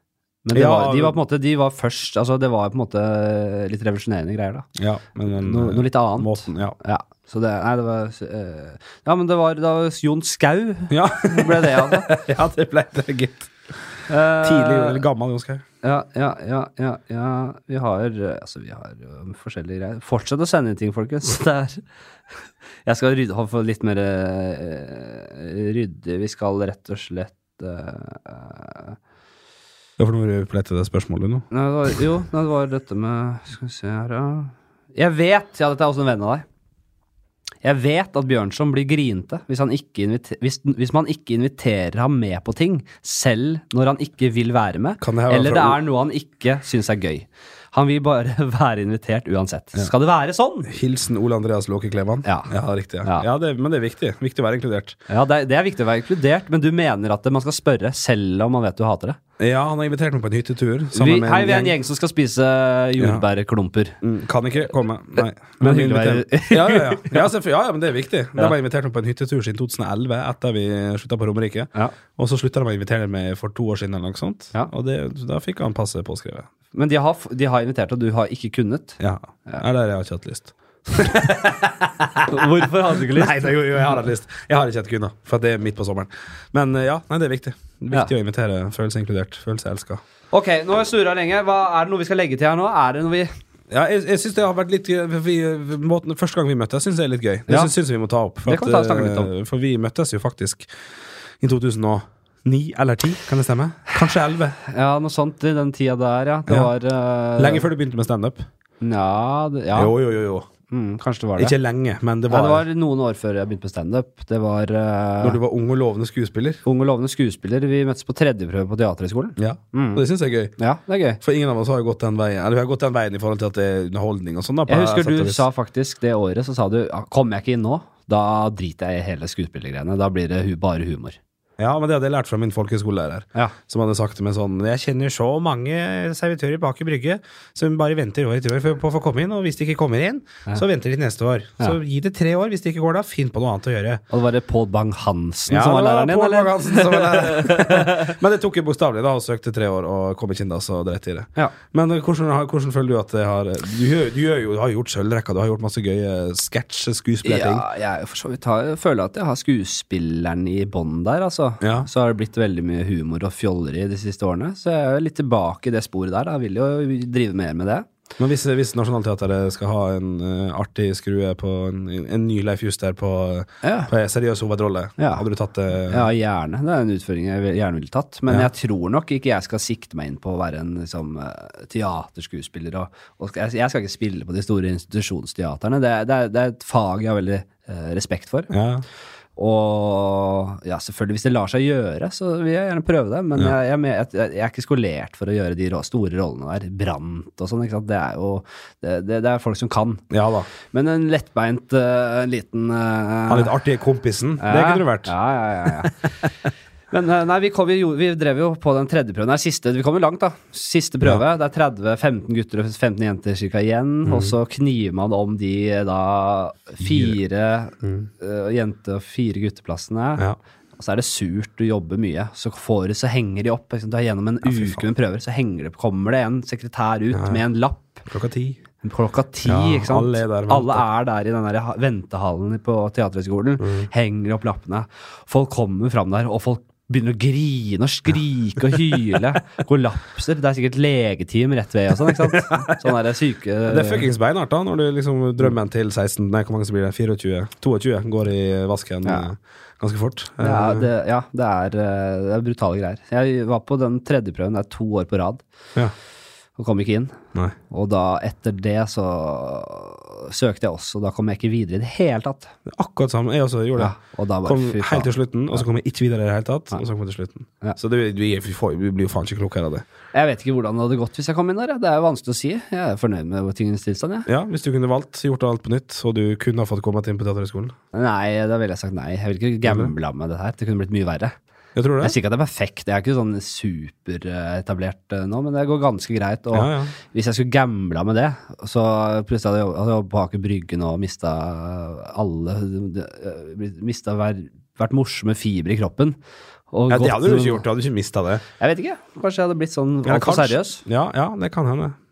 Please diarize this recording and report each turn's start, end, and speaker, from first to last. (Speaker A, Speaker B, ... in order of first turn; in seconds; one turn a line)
Speaker A: 0.4-4.7
Speaker B: 0.5-1.2
Speaker B: 4.8-6.8
Speaker A: 5.3-12.1
Speaker B: 10.9-13.5
Speaker A: 14.1-15.0
Speaker B: 14.4-15.6
Speaker A: 15.8-21.8
Speaker A: 22.8-29.0
Speaker B: 30.0-31.4
Speaker A: 31.5-36.4
Speaker A: 37.6-50.7
Speaker B: 45.0-45.8
Speaker B: 50.7-55.0
Speaker A: 52.2-52.5
Speaker A: 55.1-59.2
Speaker B: 59.4-61.8
Speaker A: 60.9-64.0
Speaker B: 63.0-63.2
Speaker B: 64.0-76.5
Speaker A: 65.6-67.3
Speaker A: 76.7-79.6
Speaker B: 79.0-90.0
Speaker A: 82.3-83.3
Speaker A: 90.3-93.3
Speaker B: 93.7-100.7
Speaker A: 98.4-99.3
Speaker B: 101.4-104.6
Speaker A: 104.6-107.7
Speaker B: 107.4-108.5
Speaker A: 108.8-109.9
Speaker B: 109.7-110.5
Speaker A: 110.7-111.5
Speaker B: 111.4-112.6
Speaker A: 112.3-115.4
Speaker B: 115.2-116.6
Speaker A: 116.6-120.0
Speaker B: 119.4-120.5
Speaker A: 120.6-121.2
Speaker B: 121.2-125.4
Speaker A: 124.7-131.2
Speaker B: 131.6-144.0
Speaker A: 144.1-148.1
Speaker B: 145.5-157.7
Speaker A: 157.2-167.9
Speaker B: 161.6-161.9
Speaker B: 168.2-176.1
Speaker A: 173.6-173.9
Speaker A: 175.0-175.2
Speaker A: 175.8-188.5
Speaker B: 188.5-188.8
Speaker A: 189.3-200.0
Speaker B: 200.1-200.5
Speaker A: 200.7-203.5
Speaker B: 203.3-205.1
Speaker A: 204.4-206.1
Speaker A: 206.9-220.2
Speaker B: 214.0-214.3
Speaker B: 216.8-217.2
Speaker B: 217.8-218.1
Speaker A: 220.8-228.0
Speaker B: 224.4-224.8
Speaker B: 227.1-227.4
Speaker B: 228.1-228.6
Speaker A: 228.8-244.1
Speaker B: 229.4-230.8
Speaker B: 233.6-233.9
Speaker B: 238.7-239.2
Speaker B: 242.1-242.9
Speaker B: 243.6-250.9
Speaker A: 250.4-255.4
Speaker A: 256.6-257.2
Speaker A: 257.7-262.5
Speaker B: 262.7-269.8
Speaker A: 263.8-265.1
Speaker A: 270.1-274.3
Speaker B: 274.3-277.7
Speaker A: 277.9-281.3
Speaker B: 279.6-279.9
Speaker B: 281.7-282.1
Speaker A: 282.0-296.2
Speaker B: 286.5-286.9
Speaker A: 296.7-297.6
Speaker B: 296.9-298.4
Speaker A: 298.6-300.8
Speaker B: 300.0-301.9